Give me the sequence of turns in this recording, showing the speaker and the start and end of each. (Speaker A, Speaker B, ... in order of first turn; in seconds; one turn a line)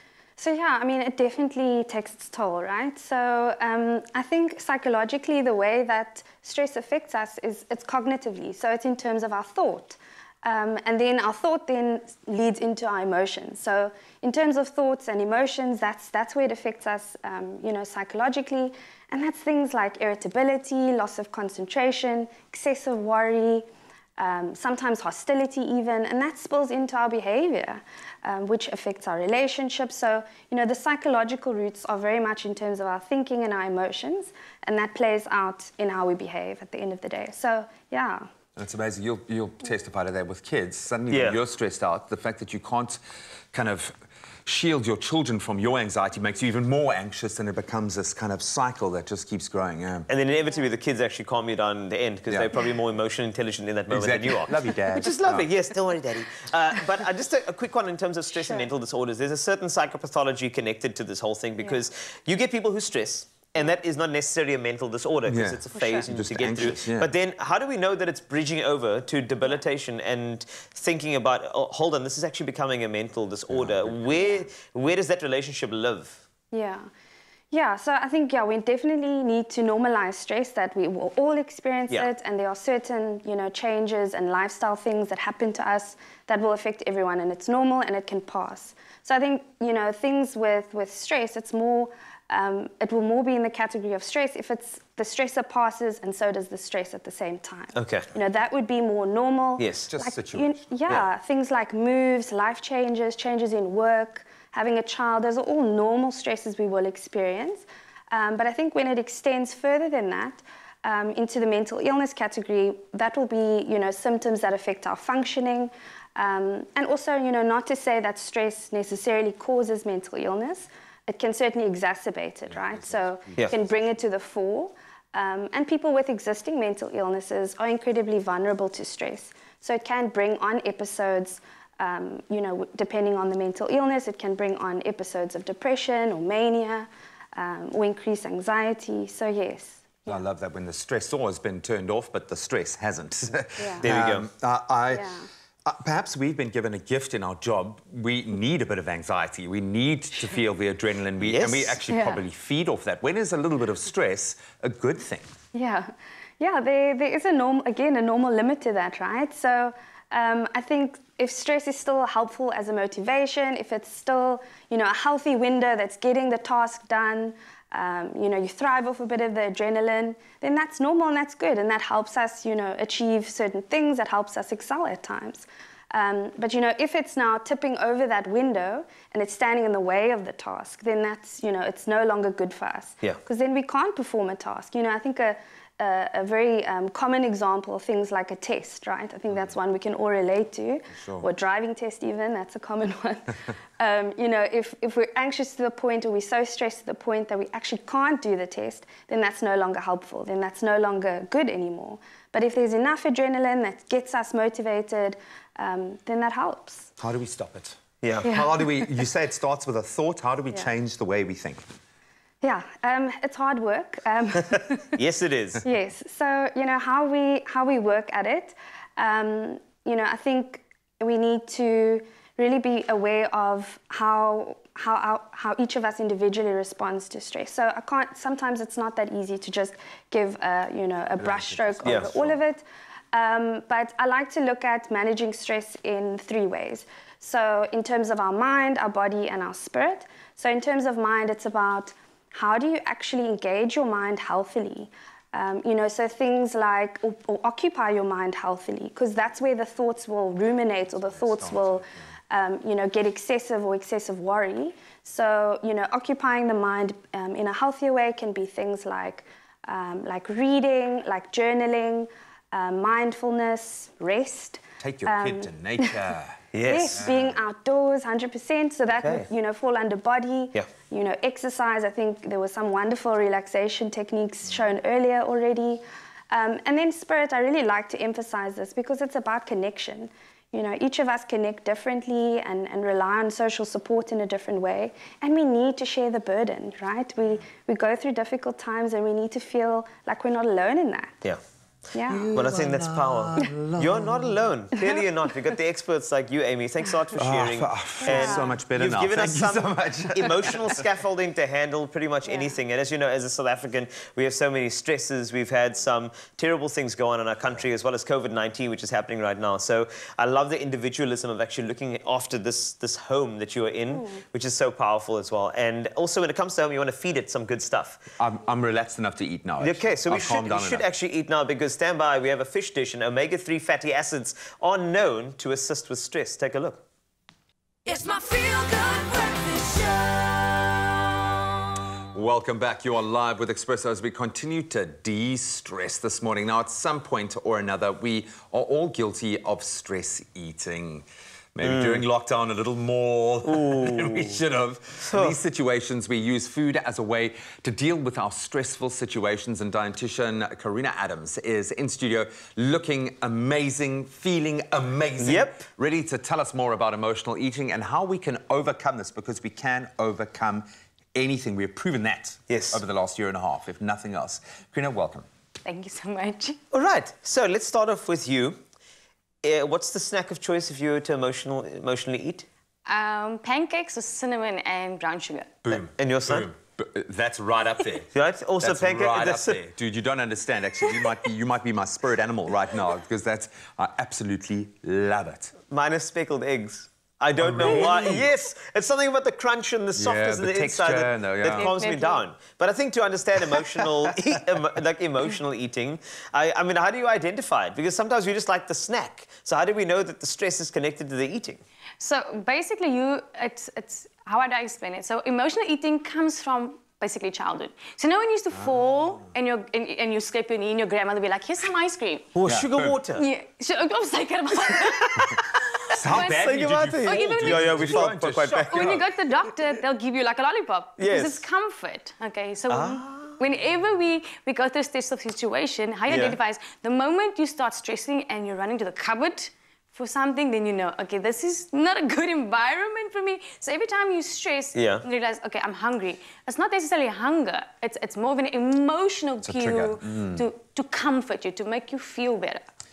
Speaker A: 0.4-23.6
Speaker A: 24.2-38.3
Speaker B: 38.5-43.0
Speaker C: 41.1-41.4
Speaker B: 43.5-50.1
Speaker C: 50.1-76.2
Speaker B: 53.9-55.5
Speaker A: 58.4-58.7
Speaker B: 65.2-67.1
Speaker A: 65.8-66.0
Speaker B: 73.5-74.2
Speaker A: 76.5-76.9
Speaker A: 77.5-140.2
Speaker C: 97.7-98.1
Speaker C: 99.6-99.9
Speaker B: 99.9-101.0
Speaker B: 122.5-123.7
Speaker B: 140.1-145.1
Speaker A: 143.6-143.8
Speaker C: 143.8-144.3
Speaker A: 144.9-145.3
Speaker B: 145.7-155.3
Speaker C: 151.2-151.8
Speaker A: 151.9-152.2
Speaker A: 155.5-206.9
Speaker B: 207.0-211.6
Speaker C: 208.0-208.3
Speaker A: 208.2-208.8
Speaker A: 212.4-214.9
Speaker C: 214.9-215.6
Speaker A: 215.6-265.9
Speaker B: 231.2-232.4
Speaker C: 231.8-232.1
Speaker B: 251.1-251.9
Speaker B: 264.8-267.4
Speaker C: 266.5-267.1
Speaker A: 266.6-291.1
Speaker C: 268.9-269.3
Speaker A: 291.9-292.3
Speaker B: 292.1-294.3
Speaker C: 292.3-318.0
Speaker B: 297.1-300.8
Speaker A: 298.0-298.6
Speaker A: 302.2-302.5
Speaker B: 318.2-320.9
Speaker C: 319.6-326.8
Speaker D: 327.8-330.6
Speaker B: 332.1-365.3
Speaker C: 341.6-342.0
Speaker C: 343.4-344.4
Speaker C: 345.0-345.4
Speaker C: 355.2-355.6
Speaker C: 362.5-362.8
Speaker E: 365.6-366.6
Speaker C: 366.7-368.6
Speaker C: 369.4-372.5
Speaker E: 372.9-375.6
Speaker B: 375.6-378.1
Speaker C: 376.0-376.5
Speaker C: 378.1-379.6
Speaker B: 378.6-385.5
Speaker C: 385.7-401.6
Speaker B: 387.4-388.3
Speaker B: 389.9-391.7
Speaker E: 391.6-392.2
Speaker E: 402.0-412.3
Speaker C: 412.3-413.2
Speaker B: 412.5-413.0
Speaker E: 413.1-442.6
Speaker C: 415.9-419.0
Speaker B: 415.9-419.1
Speaker C: 421.0-421.4
Speaker C: 422.7-423.3
Speaker C: 426.1-426.4
Speaker C: 434.7-435.0
Speaker B: 439.4-440.4